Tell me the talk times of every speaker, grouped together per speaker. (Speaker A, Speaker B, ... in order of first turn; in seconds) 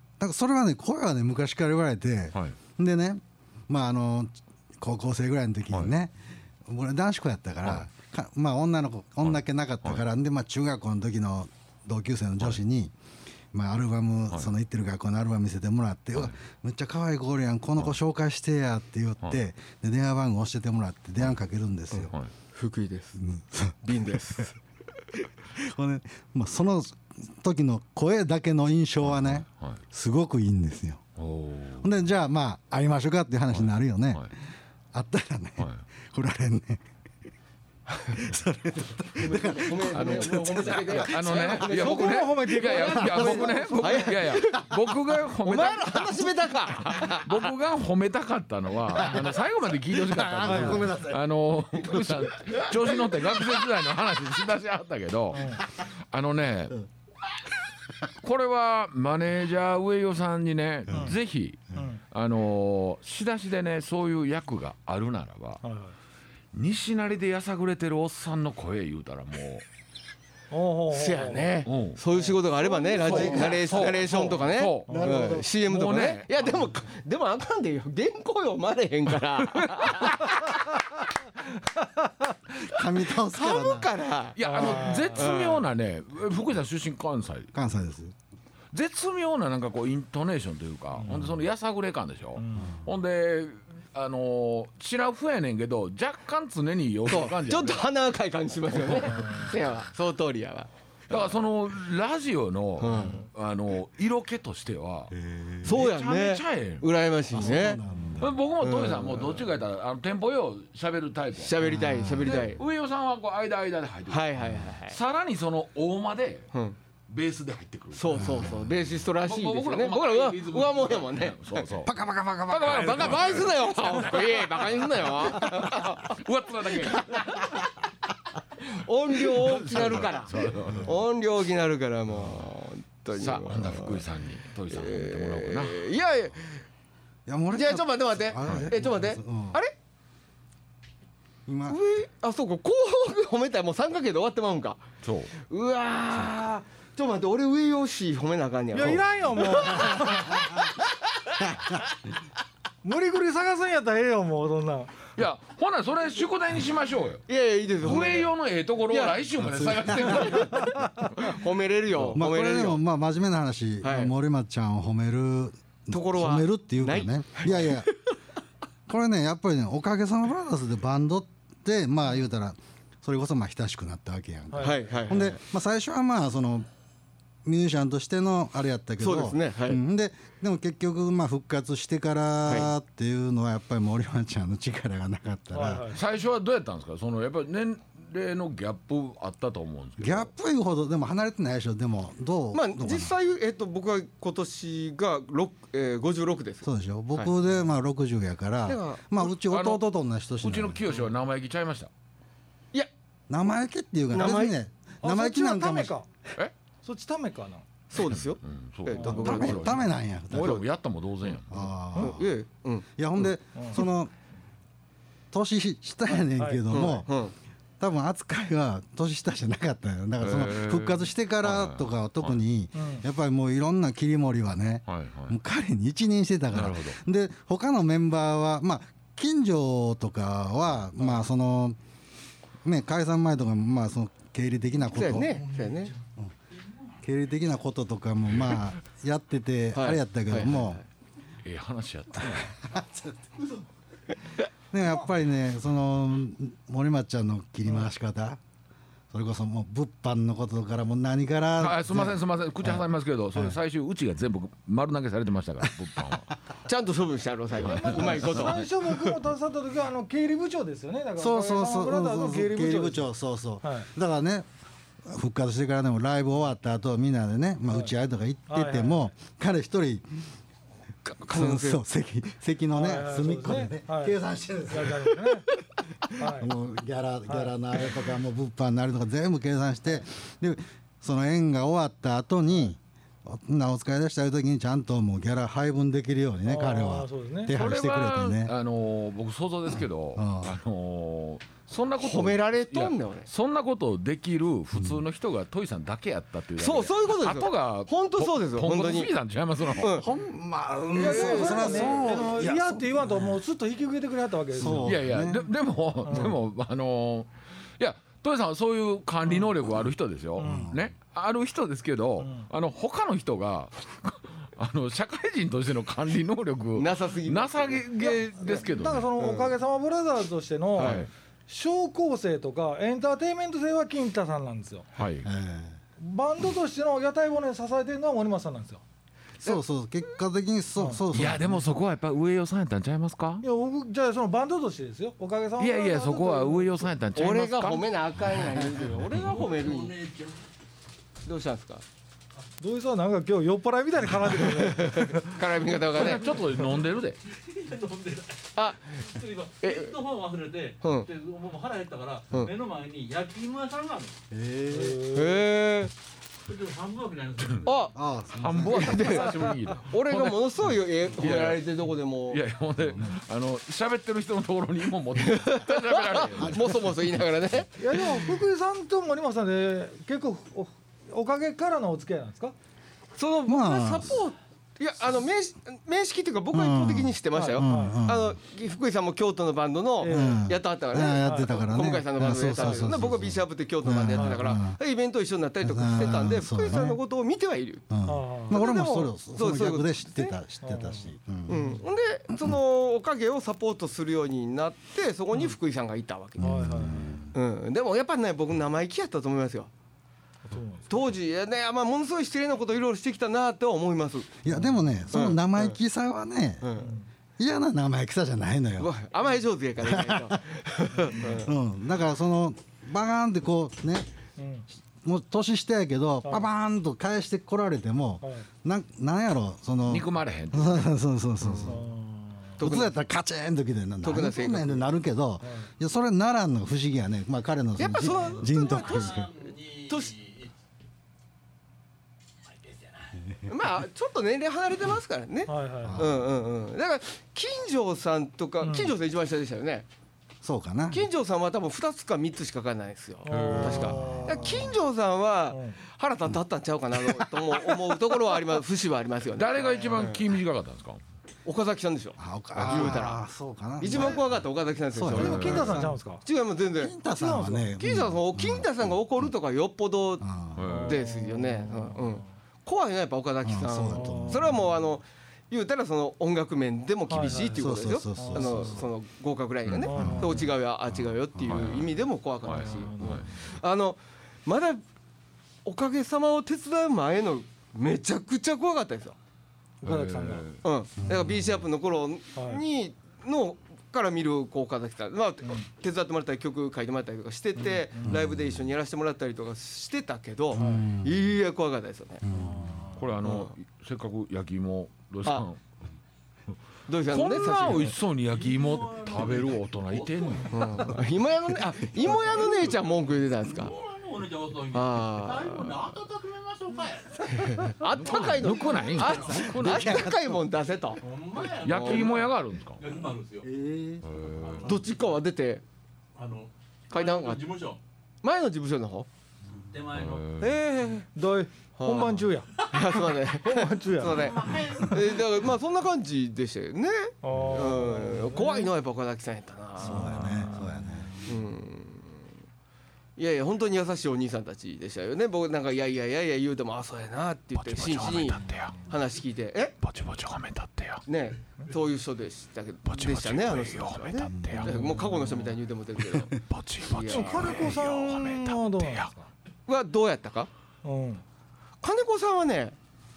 Speaker A: 0.2-12.9, 13.5-22.1, 23.2-24.4, 25.5-31.0, 31.8-34.3, 34.9-36.8, 38.1-41.5, 43.0-43.4, 48.9-49.3, 49.9-51.2, 51.9-52.6, 60.9-61.1, 73.0-75.5, 82.6-83.9, 87.5-88.1, 92.5-92.8, 105.1-105.7, 107.3-108.4, 111.6-112.4, 114.4-114.7, 118.1-118.7, 121.8-123.5, 130.7-130.9, 137.2-139.6, 141.5-141.8, 151.4-151.8, 159.4-160.5, 162.1-167.9, 168.9-176.7, 177.4-185.8, 190.0-193.1, 196.6-200.8, 203.3-205.9, 209.0-210.6, 211.5-212.2, 213.0-214.1, 215.3-217.1, 217.8-231.8, 232.6-235.5, 237.0-240.8, 242.2-243.2, 244.7-248.4, 249.1-252.8, 261.2-264.5, 265.0-270.1, 271.3-275.2, 276.2-288.5, 290.1-290.6, 299.9-303.4, 304.5-305.4, 310.4-310.9, 325.2-325.8, 329.4-331.7, 354.3-355.1, 357.9-359.1, 373.5-374.2, 376.5-378.4, 380.0-384.8, 385.6-387.0, 387.9-391.6, 396.4-397.3, 404.4-406.8, 407.4-408.9, 409.8-410.4, 411.2-414.1, 415.0-421.8, 422.6-429.3, 435.8-436.3, 440.4-441.1, 443.9-444.7, 447.1-447.7, 452.2-454.4, 454.9-455.9, 456.8-458.9, 460.2-460.7, 463.4-464.7, 467.2-468.9, 469.9-471.7, 481.0-481.6, 488.1-488.7, 490.5-491.3, 492.2-492.9, 509.4-510.4, 513.4-514.1, 529.8-531.1, 544.3-544.9
Speaker B: 9.2-10.0, 29.0-29.8, 31.2-31.9, 33.5-34.3, 35.6-35.8, 39.7-56.8, 58.2-65.6, 66.5-69.6, 71.7-72.0, 73.0-74.9, 75.6-76.4, 79.6-80.0, 84.4-87.5, 88.7-97.9, 98.7-99.6, 101.1-105.1, 105.6-111.6, 112.2-114.2, 114.9-116.5, 117.1-118.6, 119.2-121.9, 122.5-127.6, 129.2-131.0, 133.1-135.9, 138.4-138.7, 145.0-145.3, 155.2-157.2, 157.8-160.8, 185.9-190.3, 199.5-199.8, 200.4-201.9, 207.9-211.7, 220.2-222.4, 224.9-225.4, 226.5-227.0, 241.4-242.5, 251.6-256.3, 257.5-258.6, 287.5-300.1, 304.6-319.1, 320.8-321.1, 324.9-325.3, 331.1-333.4, 335.6-337.9, 345.8-347.2, 358.4-361.6, 362.3-366.9, 419.9-420.9, 443.3-444.0, 449.4-451.0, 460.6-461.0, 471.4-473.3, 479.8-480.6, 493.0-495.6, 497.1-500.9, 507.9-510.1, 511.6-512.8, 514.0-514.7, 519.9-520.6, 537.5-538.8, 539.8-541.0, 542.9-544.9, 546.3-549.1
Speaker C: 21.9-23.2, 23.8-24.6, 39.1-44.8, 45.4-47.5, 70.9-80.6, 83.2-85.7, 97.1-101.2, 102.8-103.2, 105.6-107.8, 108.6-109.5, 111.4-112.6, 114.1-115.0, 117.9-121.4, 122.6-127.6, 128.6-134.1, 134.7-136.6, 137.5-139.7, 141.7-144.8, 145.4-150.4, 157.3-158.3, 158.9-159.2, 160.0-160.6, 161.2-162.8, 163.8-164.1, 165.9-167.9, 174.6-175.4, 179.0-179.8, 182.4-182.7, 192.5-197.3, 198.7-199.3, 204.1-204.5, 207.9-209.8, 210.3-210.6, 211.9-213.3, 216.7-217.3, 234.9-235.9, 239.7-240.8, 256.6-258.7, 271.0-271.8, 292.0-293.3, 296.6-299.1, 299.7-300.1, 301.0-302.2, 316.8-317.9, 319.2-319.5, 320.8-321.1, 337.1-340.0, 341.2-341.8, 344.4-346.4, 348.6-348.8, 349.6-349.9, 350.8-351.1, 355.1-355.9, 357.6-357.9, 358.6-362.4, 365.1-368.2, 373.1-387.9, 388.5-390.4, 391.5-396.7, 397.3-399.7, 400.9-404.4, 405.1-405.8, 406.6-406.9, 408.8-411.5, 421.4-421.8, 422.6-422.9, 424.0-424.9, 427.8-429.3, 429.9-430.1, 433.5-439.9, 440.9-450.2, 451.4-453.2, 453.8-456.9, 457.8-460.2, 460.9-474.8, 475.6-479.1, 480.6-492.2, 493.2-493.5, 496.9-497.9, 500.5-503.7, 504.7-505.8, 507.5-511.0, 511.6-512.2, 514.6-515.6, 516.9-517.4, 518.2-519.1, 520.4-521.1, 521.8-530.3, 531.2-532.2, 533.2-539.8, 541.1-546.4, 546.9-547.7, 549.7-550.5, 551.8-552.8
Speaker D: 41.6-44.1, 50.4-50.9, 55.3-55.6, 60.9-61.2, 61.8-62.0, 65.6-65.9, 70.5-71.5, 72.1-73.3, 74.9-75.4, 84.4-85.3, 92.4-92.8, 99.2-99.5, 148.7-150.4, 152.8-154.9, 160.8-161.0, 174.5-174.8, 185.5-186.0, 205.0-206.1, 206.8-207.6, 209.0-209.2, 213.6-213.8, 216.4-216.8, 222.8-223.0, 257.6-263.1, 263.6-263.9, 268.5-269.1, 272.7-274.2, 274.7-275.4, 276.1-276.5, 277.3-277.5, 286.4-287.5, 300.9-304.9, 306.0-306.3, 310.4-310.7, 312.2-312.5, 318.0-324.9, 326.0-328.8, 333.4-336.9, 342.6-345.4, 354.7-355.4, 367.8-372.5, 377.3-378.0, 380.0-380.5, 381.1-381.5, 382.5-382.9, 384.1-384.4, 388.0-388.6, 390.6-391.8, 396.4-397.2, 400.4-400.9, 404.5-404.8, 406.8-407.1, 410.9-411.4, 414.4-414.7, 421.6-422.6, 425.4-425.7, 435.5-436.1, 438.6-438.9, 443.2-444.7, 445.5-445.8, 455.1-456.2, 457.1-457.7, 460.7-462.2, 463.9-464.6, 467.1-468.7, 469.9-470.5, 472.5-473.2, 479.8-480.5, 482.4-482.6, 487.9-488.2, 490.5-490.9, 492.3-493.0, 521.1-522.7, 523.3-524.4, 527.2-528.7, 529.8-531.3, 547.1-549.3, 550.8-551.2
Speaker E: 339.1-340.5, 347.3-354.1, 356.4-357.9, 428.1-430.5, 432.5-433.2, 498.3-501.0, 502.0-509.5, 511.0-513.5, 514.4-514.9, 516.1-517.8, 519.7-520.4, 522.6-523.0, 524.0-525.4